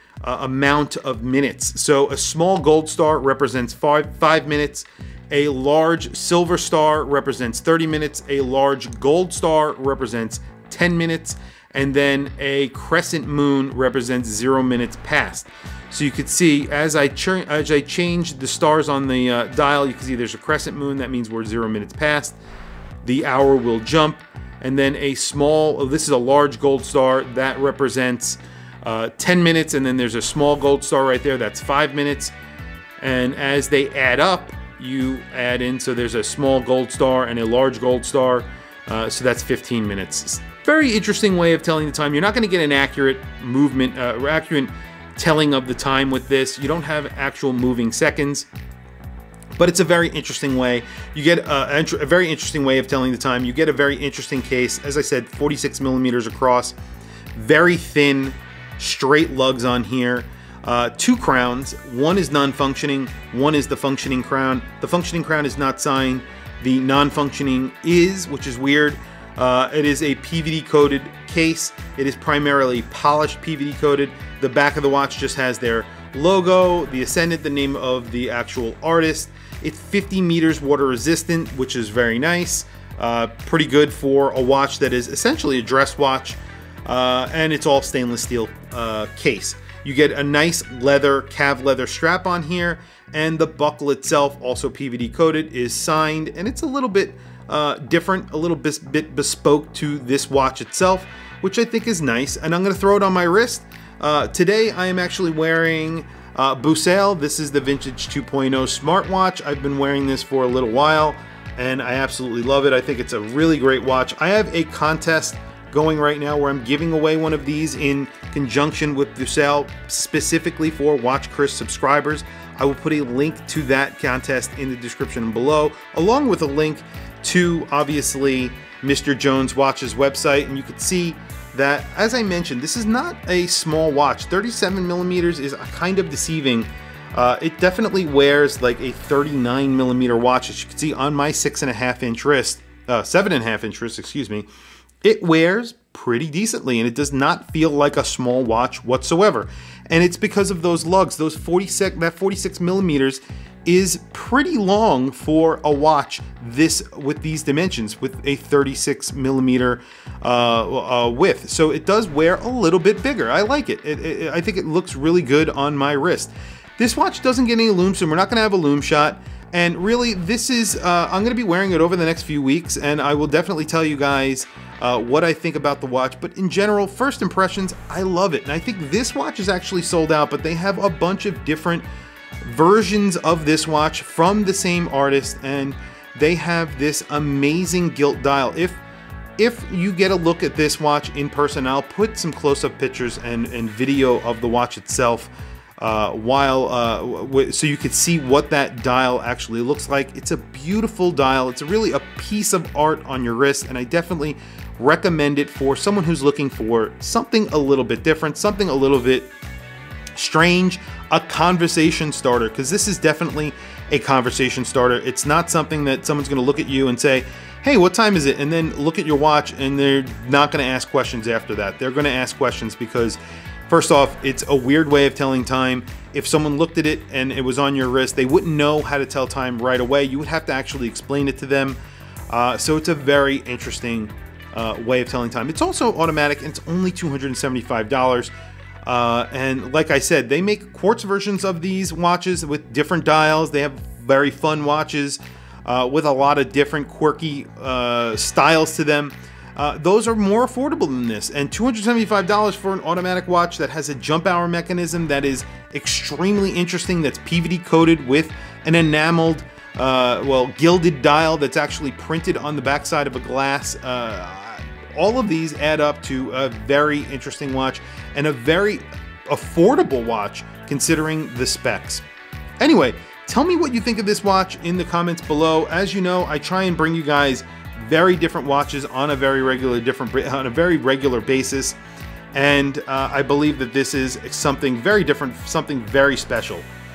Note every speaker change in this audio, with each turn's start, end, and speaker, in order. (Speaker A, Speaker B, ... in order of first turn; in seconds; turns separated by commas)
Speaker A: 0.2-22.4, Speaker A: 23.0-32.3, Speaker A: 33.0-48.5, Speaker A: 49.6-56.7, Speaker A: 57.3-144.5, Speaker A: 145.0-181.8, Speaker A: 182.4-188.8, Speaker A: 189.4-209.3, Speaker A: 210.1-238.3, Speaker A: 238.8-272.0, Speaker A: 272.6-281.8, Speaker A: 282.3-286.7